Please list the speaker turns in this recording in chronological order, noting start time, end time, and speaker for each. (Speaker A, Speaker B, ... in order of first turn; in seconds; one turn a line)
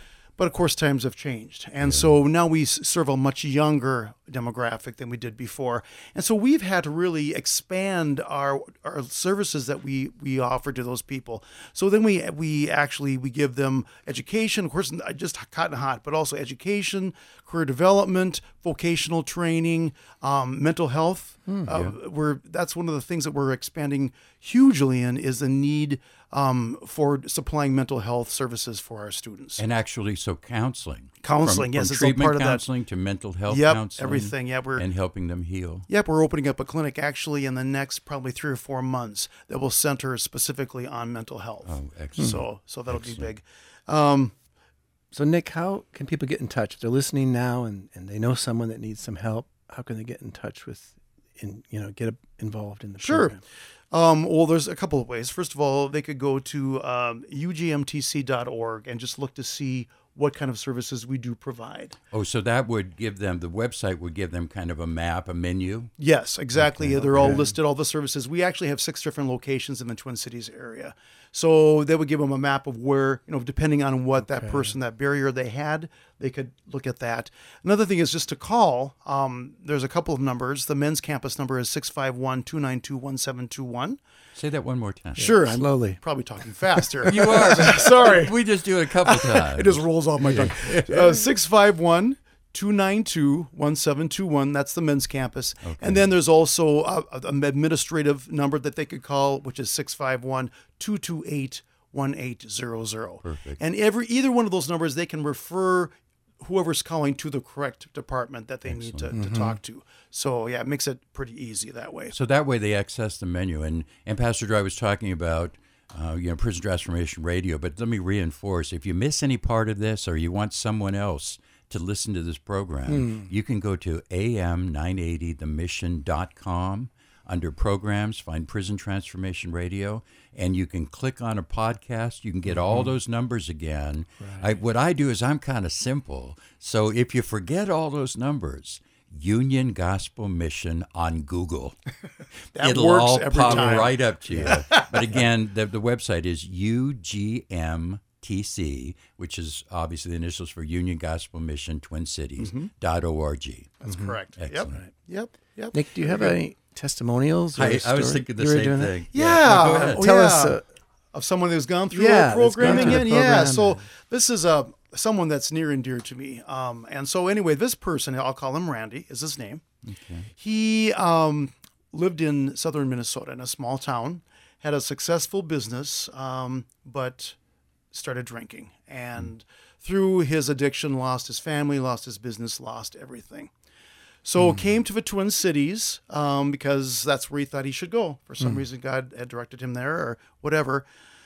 Speaker A: 0.4-29.6
Speaker B: 1.8-2.1
Speaker B: 21.7-22.0
Speaker B: 29.6-35.9
Speaker A: 31.2-32.6
Speaker A: 33.5-34.9
Speaker A: 35.9-44.3
Speaker B: 41.6-43.3
Speaker C: 45.1-53.4
Speaker A: 53.0-62.0
Speaker B: 62.1-65.9
Speaker A: 66.0-84.0
Speaker B: 66.5-67.5
Speaker C: 67.1-67.5
Speaker C: 74.3-74.7
Speaker B: 84.4-85.3
Speaker C: 85.2-86.0
Speaker A: 85.2-88.4
Speaker C: 86.8-87.7
Speaker B: 87.0-91.2
Speaker A: 89.0-112.2
Speaker C: 90.3-90.5
Speaker B: 95.6-96.1
Speaker B: 103.2-103.6
Speaker B: 108.7-109.2
Speaker C: 109.1-109.6
Speaker B: 112.1-141.8
Speaker C: 122.9-123.3
Speaker C: 132.6-132.9
Speaker C: 134.2-134.5
Speaker A: 142.6-145.2
Speaker B: 142.6-153.8
Speaker A: 152.4-152.7
Speaker A: 153.8-156.4
Speaker C: 153.9-154.1
Speaker B: 154.4-154.8
Speaker C: 155.7-159.1
Speaker B: 157.6-160.1
Speaker A: 159.1-160.6
Speaker C: 159.6-160.6
Speaker A: 161.1-169.6
Speaker C: 161.9-163.8
Speaker B: 162.6-163.0
Speaker B: 169.9-170.3
Speaker A: 170.4-177.4
Speaker A: 177.9-183.5
Speaker A: 184.2-190.9